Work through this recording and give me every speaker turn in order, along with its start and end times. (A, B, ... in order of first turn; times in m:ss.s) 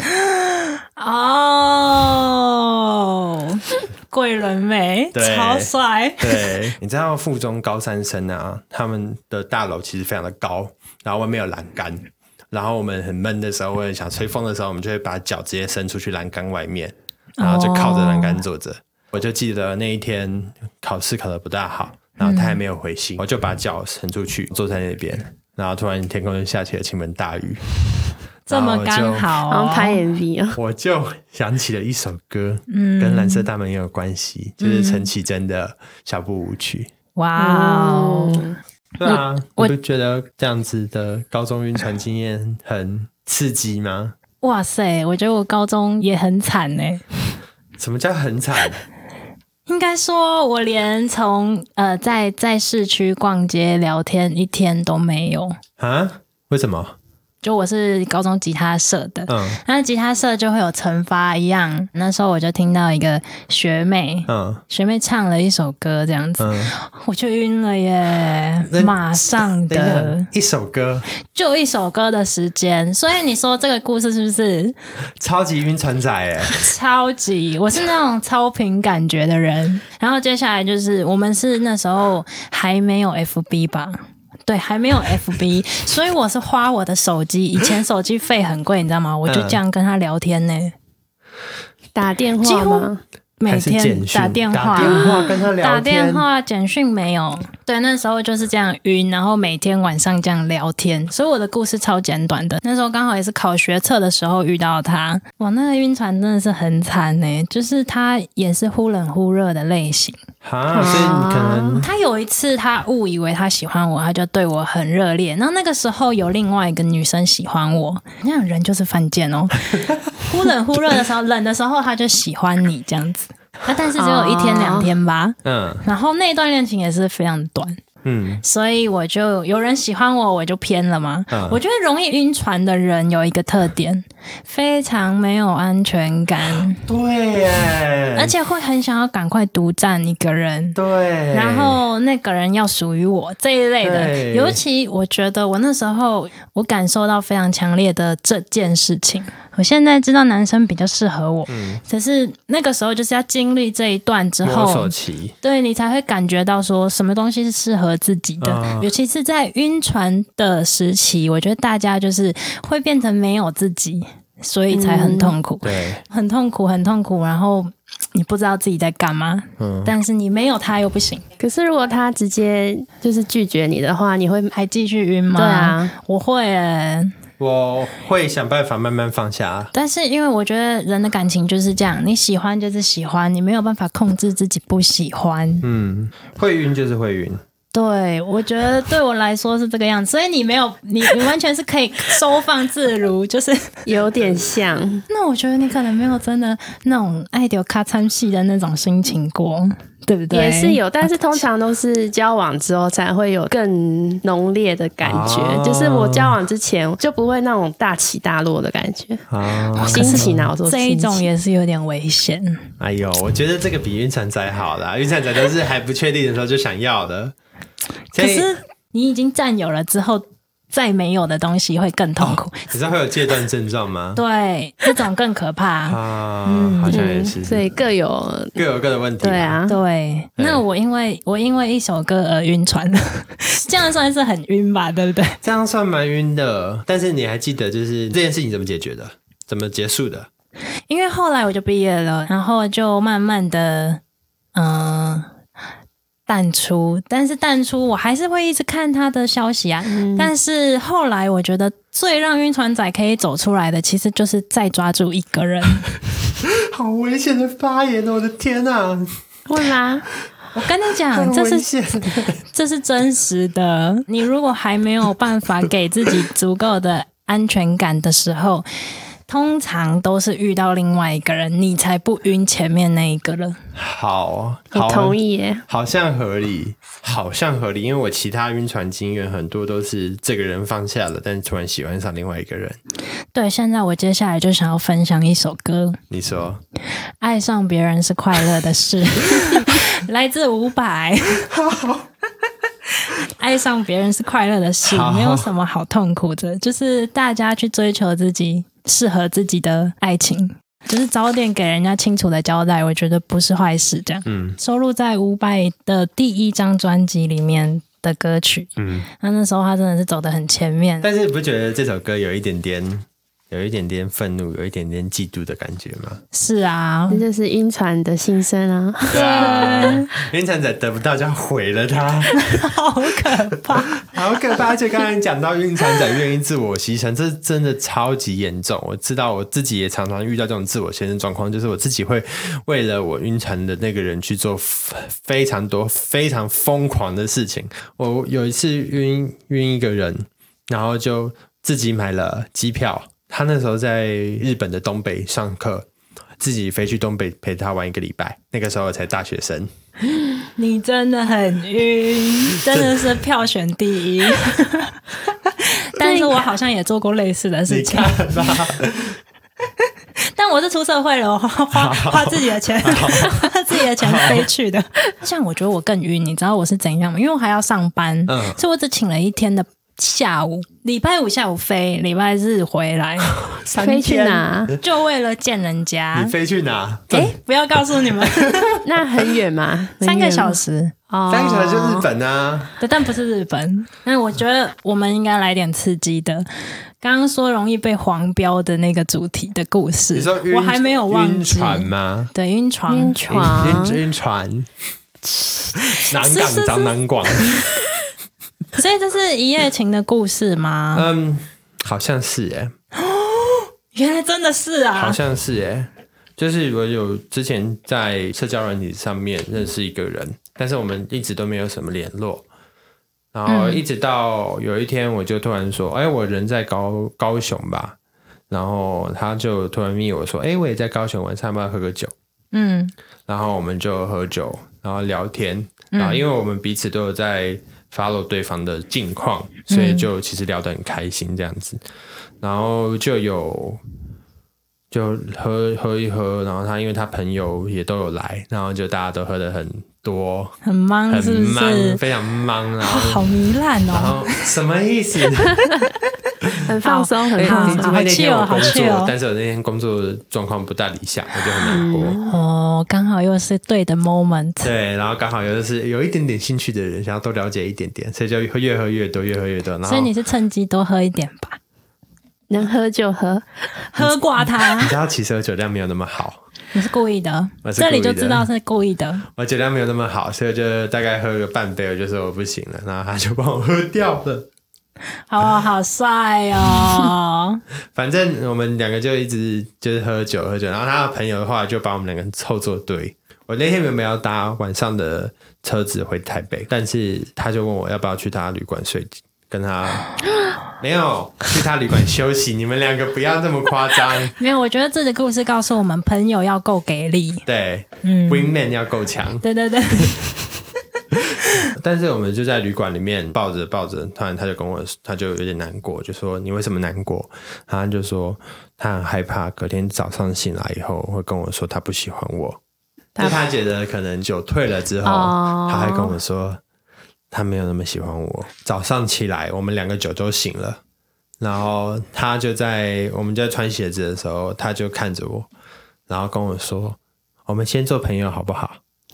0:00.2-0:06.6 A
0:05.1-0:27.6 B
0:17.4-0:18.4 A
0:22.2-0:22.6 A
0:28.5-0:30.0 A
0:28.5-0:29.3 B
0:29.5-0:30.6 C
0:30.6-0:36.9 B
0:32.7-0:33.5 A
0:34.6-0:35.1 A
0:37.2-0:38.4 A
0:37.4-0:38.6 C
0:39.0-0:44.2 B
0:39.0-0:39.7 A
0:44.4-0:47.0 A
0:47.8-0:48.8 B
0:49.7-0:55.6 A
0:55.8-0:57.0 B
0:57.4-1:10.3 A
0:59.3-0:59.6 B
1:04.3-1:04.6 B
1:06.4-1:06.7 B
1:08.7-1:11.1 B
1:11.3-1:14.8 A
1:15.2-1:16.6 B
1:16.5-1:30.8 A
1:29.3-1:29.6 B
1:32.0-1:33.0 C
1:32.4-1:50.2 A
1:33.5-1:36.3 B
1:34.8-1:35.3 C
1:50.4-1:51.9 B
1:50.8-1:51.8 C
1:51.8-2:07.8 A
2:04.0-2:04.9 C
2:05.4-2:05.8 B
2:08.0-2:08.4 B
2:08.4-2:16.9 A
2:11.3-2:11.6 B
2:16.8-2:18.3 B
2:18.2-2:20.8 A
2:20.8-2:21.8 B
2:21.3-2:51.2 A
2:23.8-2:24.6 B
2:31.5-2:31.8 B
2:34.4-2:35.4 B
2:38.4-2:38.9 B
2:44.7-2:45.4 C
2:45.6-2:46.0 B
2:49.6-2:50.0 B
2:51.4-2:54.5 C
2:54.5-2:57.2 A
2:55.4-2:56.0 C
2:57.4-2:59.7 B
2:59.7-3:05.6 A
3:05.6-3:07.4 B
3:07.7-3:13.7 A
3:13.9-3:15.1 C
3:15.1-3:21.1 A
3:20.3-3:29.3 C
3:25.0-3:26.4 B
3:29.3-3:30.5 B
3:29.8-3:31.3 C
3:29.8-3:32.7 A
3:32.8-3:37.4 B
3:38.1-3:38.5 B
3:38.2-3:42.7 A
3:42.2-3:44.2 B
3:44.2-3:47.1 A
3:45.9-3:47.7 B
3:46.9-3:48.6 C
3:48.6-3:49.6 B
3:49.2-3:49.8 C
3:49.7-3:55.4 A
3:50.4-3:50.6 B
3:55.4-4:00.3 B
4:00.9-4:04.0 A
4:04.6-4:05.3 A
4:06.3-4:15.9 A
4:09.9-4:10.3 C
4:16.4-4:19.2 B
4:19.5-4:20.1 C
4:20.6-4:22.4 B
4:20.6-4:28.7 A
4:29.3-4:33.6 A
4:33.8-4:42.8 B
4:34.7-4:35.6 C
4:43.3-4:46.0 A
4:46.1-4:46.6 B
4:47.2-4:51.5 A
4:51.5-4:52.0 B
4:52.9-5:11.1 A
4:54.8-4:55.5 B
5:04.3-5:04.6 B
5:08.8-5:09.1 B
5:11.0-5:16.2 B
5:16.3-5:17.2 A
5:17.1-5:20.0 C
5:19.1-5:20.1 A
5:19.1-5:22.6 B
5:22.4-5:24.1 A
5:24.0-5:45.9 B
5:46.4-5:49.7 B
5:50.6-5:58.6 A
5:52.6-5:53.1 B
5:56.0-5:56.4 C
5:57.7-5:59.2 B
6:00.3-6:13.4 A
6:01.7-6:04.5 B
6:08.3-6:08.6 B
6:13.3-6:14.8 B
6:13.7-6:14.7 C
6:14.8-6:16.3 A
6:16.1-6:18.8 B
6:17.1-6:18.8 A
6:18.8-6:20.6 C
6:20.0-6:20.9 A
6:21.1-6:22.1 C
6:21.3-6:22.7 B
6:22.8-6:26.5 A
6:27.0-6:33.6 A
6:30.1-6:32.3 B
6:32.9-6:34.0 C
6:33.3-6:34.7 B
6:35.4-6:37.6 A
6:35.9-6:37.7 B
6:38.7-6:41.1 A
6:40.9-6:42.7 B
6:43.0-6:45.2 A
6:45.0-6:52.5 B
6:53.3-6:58.0 B
6:53.5-6:53.8 A
6:58.5-7:02.1 B
7:02.5-7:02.9 A
7:03.3-7:11.8 B
7:05.9-7:06.2 A
7:09.7-7:10.1 A
7:12.4-7:13.8 B
7:14.9-7:20.6 B
7:20.6-7:22.0 A
7:21.1-7:23.3 B
7:22.8-7:24.5 A
7:23.9-7:25.6 B
7:26.7-7:28.1 C
7:26.8-7:29.1 A
7:27.4-7:32.2 B
7:31.6-7:32.4 C
7:32.2-7:34.7 A
7:34.6-7:40.1 B
7:39.8-7:41.6 A
7:42.5-7:43.5 C
7:43.9-7:44.9 A
7:44.0-7:46.4 B
7:46.7-7:49.3 A
7:47.6-7:48.5 B
7:49.3-7:54.5 B
7:55.3-7:57.6 A
7:57.9-8:10.2 B
8:10.8-8:14.3 B
8:14.4-8:17.5 A
8:17.5-8:20.2 B
8:18.0-8:18.5 A
8:19.4-8:20.4 A
8:21.1-8:32.6 B
8:33.2-8:36.6 B
8:35.0-8:36.2 C
8:37.3-8:40.8 B
8:41.4-8:45.5 B
8:46.1-8:48.8 B